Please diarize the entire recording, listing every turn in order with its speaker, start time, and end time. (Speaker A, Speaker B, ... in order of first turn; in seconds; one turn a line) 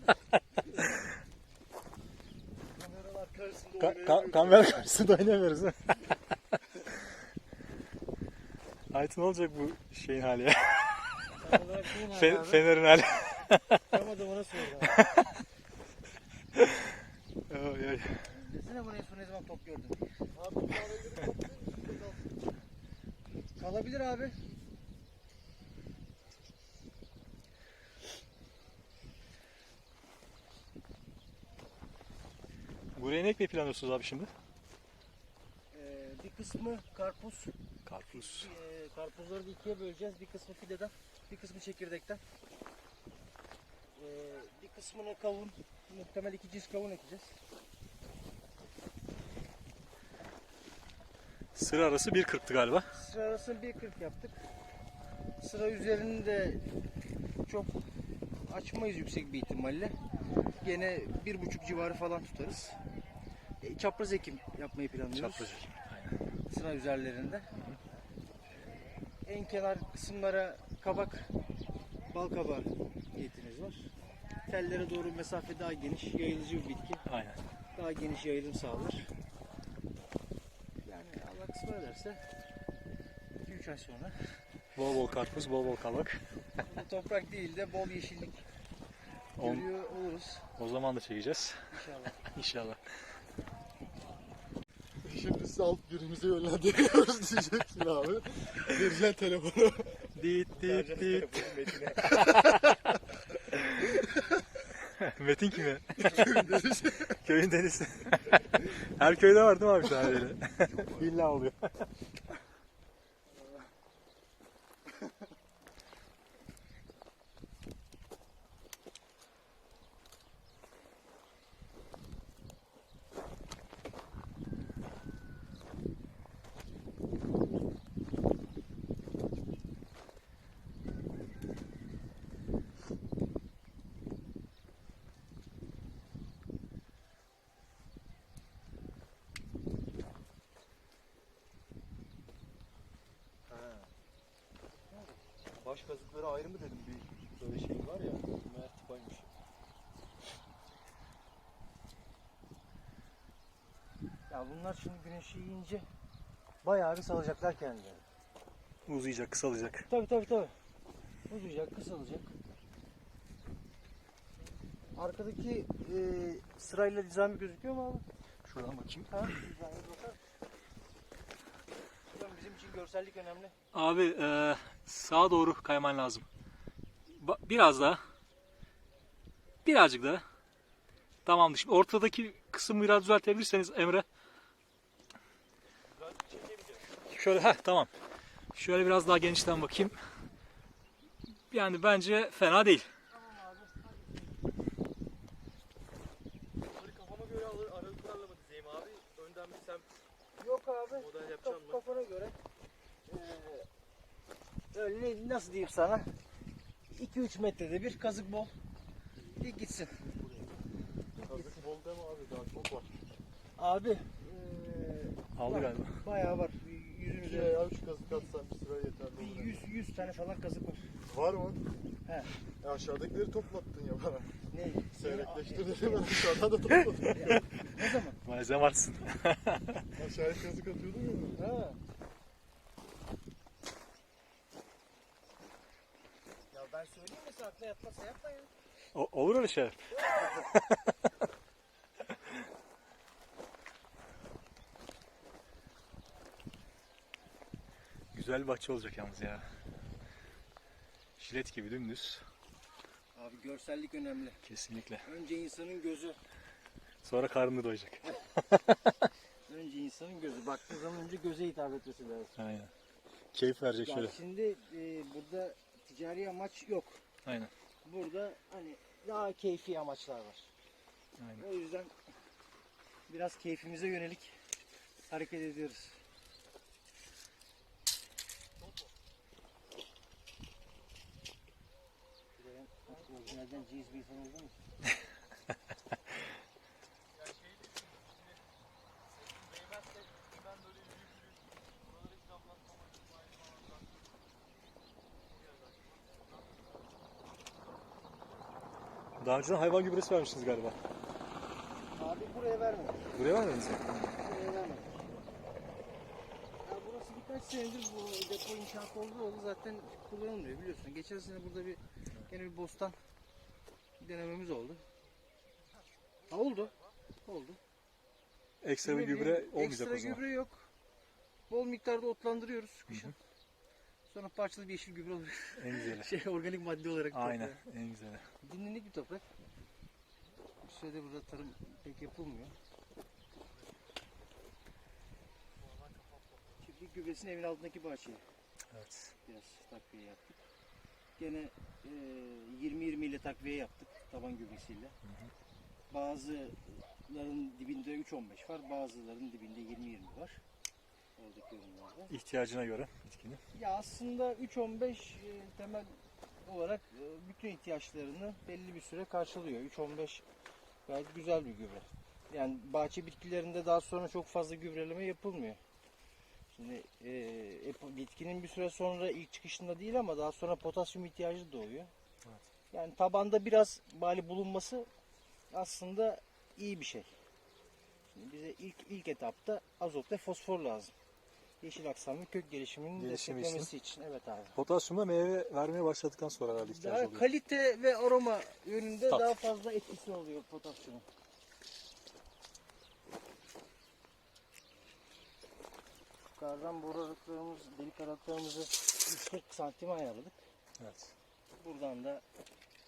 Speaker A: 0.7-1.1
Speaker B: 2.8-4.5
Speaker C: 3.0-4.7
Speaker A: 3.8-6.0
Speaker A: 8.9-11.3
Speaker B: 11.4-12.7
Speaker A: 12.0-13.9
Speaker B: 13.9-15.0
Speaker A: 14.9-15.4
Speaker A: 16.5-18.3
Speaker B: 18.3-20.1
Speaker C: 20.3-22.3
Speaker B: 23.6-24.4
Speaker A: 32.9-34.3
Speaker B: 35.7-42.2
Speaker A: 37.9-38.5
Speaker B: 44.0-47.4
Speaker A: 51.5-52.9
Speaker B: 52.9-54.4
Speaker B: 55.4-56.7
Speaker B: 57.4-57.7
Speaker B: 58.4-60.0
Speaker B: 60.6-62.8
Speaker B: 63.6-65.6
Speaker A: 65.1-66.2
Speaker B: 66.5-67.5
Speaker B: 69.2-71.3
Speaker B: 72.1-73.9
Speaker B: 74.5-77.0
Speaker A: 77.1-77.4
Speaker B: 77.7-79.1
Speaker B: 80.8-82.2
Speaker B: 83.4-84.2
Speaker A: 84.7-86.2
Speaker B: 86.6-88.4
Speaker A: 89.4-89.7
Speaker B: 89.4-90.5
Speaker A: 90.5-92.8
Speaker B: 91.7-92.2
Speaker C: 95.0-102.4
Speaker A: 100.1-102.9
Speaker B: 100.6-101.8
Speaker A: 104.8-111.9
Speaker C: 106.0-107.1
Speaker C: 143.5-143.8
Speaker B: 144.9-145.2
Speaker C: 145.6-149.1
Speaker A: 147.4-149.2
Speaker B: 154.3-155.8
Speaker B: 156.6-158.0
Speaker A: 158.8-159.9
Speaker B: 159.9-160.5
Speaker B: 161.3-162.3
Speaker B: 164.9-168.1
Speaker A: 168.4-169.4
Speaker B: 169.1-170.2
Speaker B: 172.1-173.6
Speaker A: 173.7-176.3
Speaker A: 177.1-178.0
Speaker A: 179.6-180.2
Speaker A: 181.2-184.1
Speaker C: 185.9-186.8
Speaker A: 187.1-187.9
Speaker A: 188.5-190.0
Speaker A: 191.5-192.9
Speaker B: 193.1-194.1
Speaker C: 196.7-199.8
Speaker B: 200.4-202.4
Speaker C: 200.9-201.8
Speaker B: 203.1-203.7
Speaker B: 204.7-206.1
Speaker B: 206.9-208.5
Speaker B: 209.4-210.2
Speaker B: 211.2-211.6
Speaker C: 211.2-213.0
Speaker B: 213.6-217.6
Speaker A: 215.3-216.1
Speaker C: 217.2-219.6
Speaker B: 219.2-220.9
Speaker C: 221.1-221.6
Speaker B: 222.0-222.3
Speaker C: 222.6-224.4
Speaker B: 224.5-228.2
Speaker C: 224.9-227.3
Speaker A: 226.7-229.9
Speaker C: 229.9-231.4
Speaker B: 231.3-231.8
Speaker B: 236.5-238.5
Speaker A: 238.9-241.0
Speaker B: 240.0-240.3
Speaker A: 248.1-249.4
Speaker A: 251.2-252.2
Speaker B: 253.1-254.4
Speaker A: 254.4-255.1
Speaker B: 255.0-256.2
Speaker A: 257.0-259.1
Speaker B: 259.5-262.4
Speaker A: 262.4-262.7
Speaker A: 263.3-264.1
Speaker B: 263.8-267.0
Speaker A: 267.2-267.5
Speaker B: 267.8-270.5
Speaker A: 271.2-271.4
Speaker B: 271.4-271.9
Speaker B: 273.1-274.4
Speaker B: 275.1-276.0
Speaker B: 282.4-284.6
Speaker C: 287.1-288.4
Speaker C: 289.1-294.0
Speaker C: 295.3-296.7
Speaker A: 299.2-300.8
Speaker B: 301.9-303.1
Speaker A: 303.1-304.2
Speaker B: 304.1-305.0
Speaker B: 306.6-313.0
Speaker B: 314.0-314.8
Speaker B: 316.3-317.6
Speaker A: 318.6-320.2
Speaker B: 318.8-320.7
Speaker B: 321.5-323.1
Speaker A: 322.9-323.1
Speaker B: 324.1-327.6
Speaker A: 325.6-326.1
Speaker A: 327.1-328.3
Speaker B: 328.4-329.2
Speaker B: 330.6-332.5
Speaker C: 335.6-336.5
Speaker B: 336.6-338.2
Speaker A: 338.7-339.1
Speaker B: 339.2-340.4
Speaker B: 341.2-345.0
Speaker A: 345.0-345.3
Speaker B: 345.9-350.4
Speaker B: 351.2-352.1
Speaker A: 352.1-353.4
Speaker B: 353.5-360.2
Speaker B: 360.9-365.6
Speaker B: 366.5-371.9
Speaker B: 372.7-374.9
Speaker B: 375.5-377.1
Speaker B: 378.1-380.9
Speaker B: 381.6-384.6
Speaker A: 382.9-383.7
Speaker A: 384.5-387.3
Speaker B: 386.6-391.0
Speaker A: 389.1-389.3
Speaker B: 396.4-400.4
Speaker A: 400.8-401.1
Speaker B: 401.5-402.2